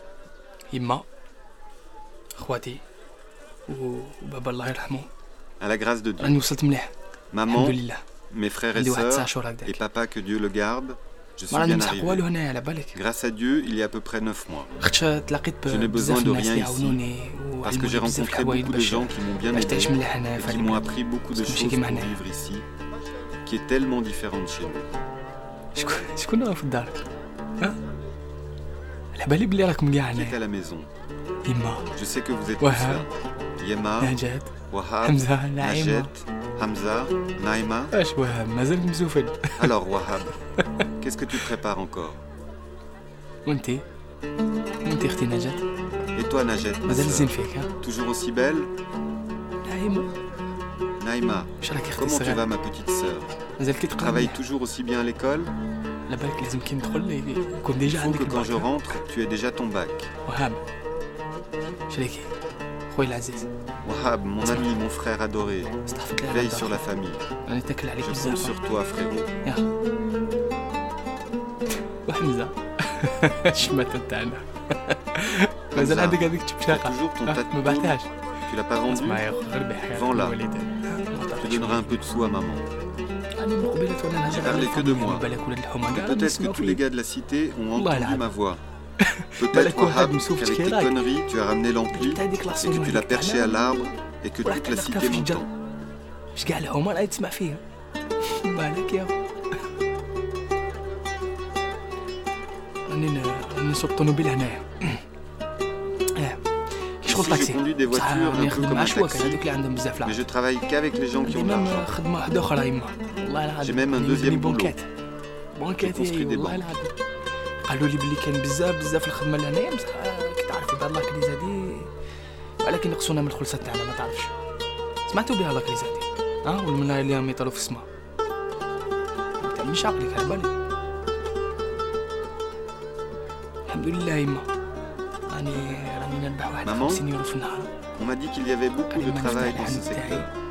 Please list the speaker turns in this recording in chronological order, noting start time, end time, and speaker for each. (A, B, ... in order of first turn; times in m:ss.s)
0:00.7-0:01.1 A
0:02.4-0:02.8 A
0:03.7-0:05.1 A
0:05.6-0:06.4 B
0:06.2-0:06.9 A
0:07.3-0:12.3 B
0:07.5-0:08.0 A
0:08.7-0:09.8 A
0:11.5-0:13.0 A
0:12.9-0:14.7 B
0:14.8-0:22.2 A
0:15.7-0:17.0 B
0:17.6-0:22.6 B
0:23.4-0:24.9 B
0:25.8-0:27.0 A
0:29.2-0:30.4 A
0:30.1-0:30.9 B
0:31.4-0:31.9 A
0:31.9-0:34.2 B
0:32.6-0:33.0 A
0:34.0-0:34.5 A
0:34.7-0:37.9 B
0:35.0-0:36.1 A
0:37.9-0:39.7 A
0:39.6-0:40.3 B
0:40.6-0:41.5 A
0:41.0-0:42.2 B
0:43.4-0:43.8 A
0:44.8-0:45.6 A
0:46.2-0:48.7 B
0:46.9-0:47.7 A
0:49.7-0:50.1 A
0:51.0-0:53.4 B
0:51.6-0:52.5 A
0:53.6-0:54.4 A
0:53.9-0:55.5 B
0:56.1-0:59.0 A
0:57.8-1:00.1 B
1:00.2-1:00.6 A
1:01.9-1:02.3 A
1:02.9-1:03.5 A
1:03.8-1:05.8 B
1:04.4-1:04.7 A
1:05.9-1:06.8 A
1:06.3-1:07.3 B
1:07.4-1:08.5 A
1:08.0-1:09.3 B
1:12.0-1:18.1 A
1:15.7-1:19.2 B
1:18.9-1:22.0 A
1:19.9-1:20.4 B
1:21.4-1:22.7 B
1:23.4-1:26.8 A
1:24.2-1:25.3 B
1:25.9-1:28.6 B
1:27.8-1:28.3 A
1:29.0-1:31.0 A
1:29.4-1:35.5 B
1:31.9-1:33.6 A
1:34.4-1:35.5 A
1:36.3-1:37.6 A
1:38.2-1:39.2 A
1:42.9-1:45.0 A
1:46.1-1:46.4 A
1:47.0-1:50.2 A
1:47.1-1:49.4 B
1:50.0-1:52.0 B
1:51.2-1:54.9 A
1:53.6-1:54.7 B
1:55.6-1:56.9 A
1:55.8-1:56.7 B
1:57.6-2:01.9 A
2:02.6-2:04.3 A
2:05.1-2:07.8 A
2:09.4-2:10.6 A
2:13.7-2:14.5 A
2:15.3-2:17.7 A
2:16.6-2:17.1 B
2:18.0-2:20.3 B
2:18.9-2:20.3 A